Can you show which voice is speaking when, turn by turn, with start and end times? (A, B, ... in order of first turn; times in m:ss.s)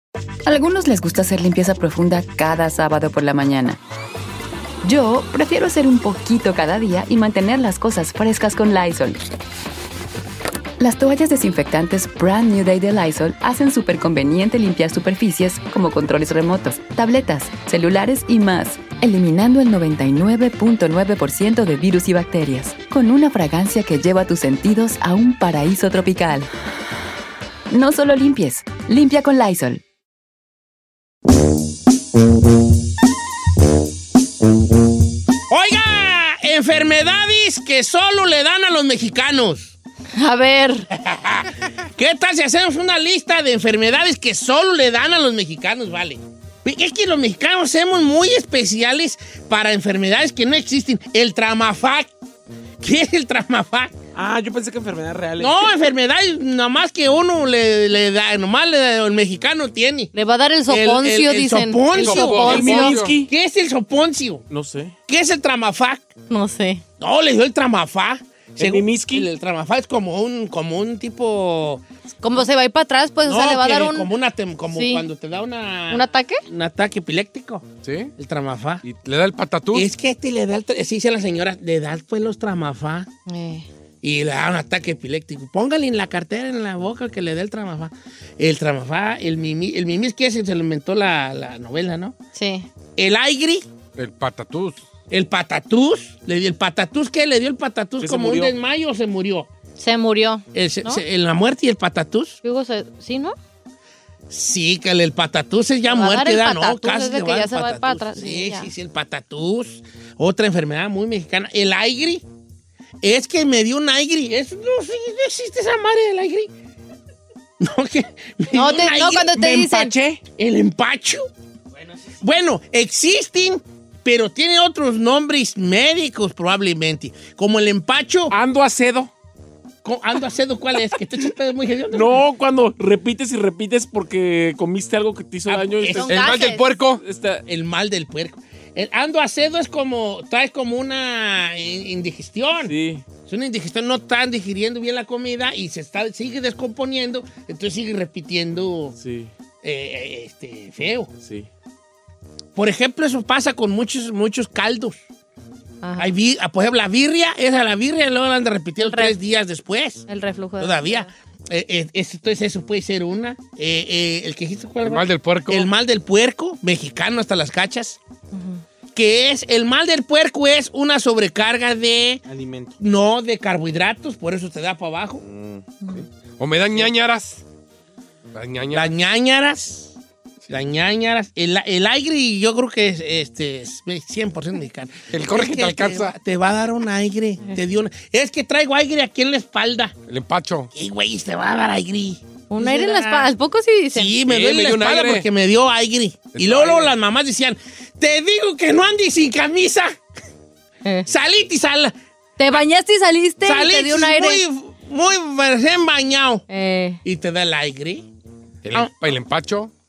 0:00.5-0:03.8 A
0:04.8-0:09.2 A
0:10.8-0:26.5 A
0:27.7-0:29.8 A
0:35.5-0:39.8 B
0:40.2-0:40.9 C
0:41.0-0:52.1 B
0:52.8-0:53.9 B
0:54.2-0:55.6 D
0:55.4-1:00.1 B
1:00.1-1:03.0 C
1:00.7-1:04.5 B
1:01.9-1:03.2 E
1:02.2-1:03.3 D
1:04.5-1:04.9 D
1:05.1-1:06.1 B
1:06.3-1:06.8 C
1:07.0-1:11.8 B
1:08.6-1:09.3 D
1:12.2-1:14.1 C
1:13.2-1:17.7 B
1:14.7-1:15.0 C
1:15.9-1:16.4 C
1:17.8-1:18.1 E
1:18.2-1:18.8 B
1:18.8-1:19.9 E
1:19.7-1:23.1 B
1:23.3-1:23.7 C
1:24.0-1:32.2 B
1:32.4-1:32.7 C
1:33.0-1:33.7 B
1:34.0-1:34.8 E
1:35.1-1:39.5 B
1:38.0-1:38.6 D
1:39.8-1:41.0 C
1:40.5-1:42.4 B
1:42.4-1:43.4 C
1:44.3-1:52.2 B
1:45.9-1:48.7 C
1:53.0-1:56.5 B
1:57.6-1:59.3 B
1:58.5-1:59.9 C
1:59.4-2:00.2 D
2:00.4-2:01.3 B
2:02.2-2:08.3 B
2:08.3-2:09.1 D
2:09.8-2:12.2 B
2:11.9-2:17.4 D
2:15.5-2:16.3 B
2:16.0-2:16.6 C
2:16.1-2:17.0 E
2:17.5-2:29.0 B
2:22.6-2:23.0 D
2:29.0-2:29.3 D
2:29.6-2:31.1 B
2:31.2-2:31.5 D
2:32.6-2:35.0 B
2:35.8-2:36.2 C
2:36.0-2:40.1 B
2:38.8-2:39.2 C
2:40.1-2:41.1 C
2:40.6-2:48.0 B
2:44.8-2:45.7 E
2:48.3-2:48.6 C
2:49.0-2:52.2 B
2:52.3-2:52.8 D
2:52.8-2:55.2 B
2:55.2-2:56.0 D
2:56.4-2:57.4 E
2:58.3-2:58.9 E
2:58.7-2:59.9 B
3:00.5-3:10.0 B
3:05.1-3:06.1 E
3:10.1-3:10.7 E
3:10.7-3:13.3 B
3:12.5-3:14.1 C
3:13.9-3:20.0 B
3:14.2-3:15.3 E
3:16.3-3:16.9 E
3:21.1-3:21.9 B
3:22.4-3:24.4 C
3:23.4-3:26.4 B
3:26.5-3:27.0 C
3:27.0-3:28.0 B
3:28.6-3:29.7 E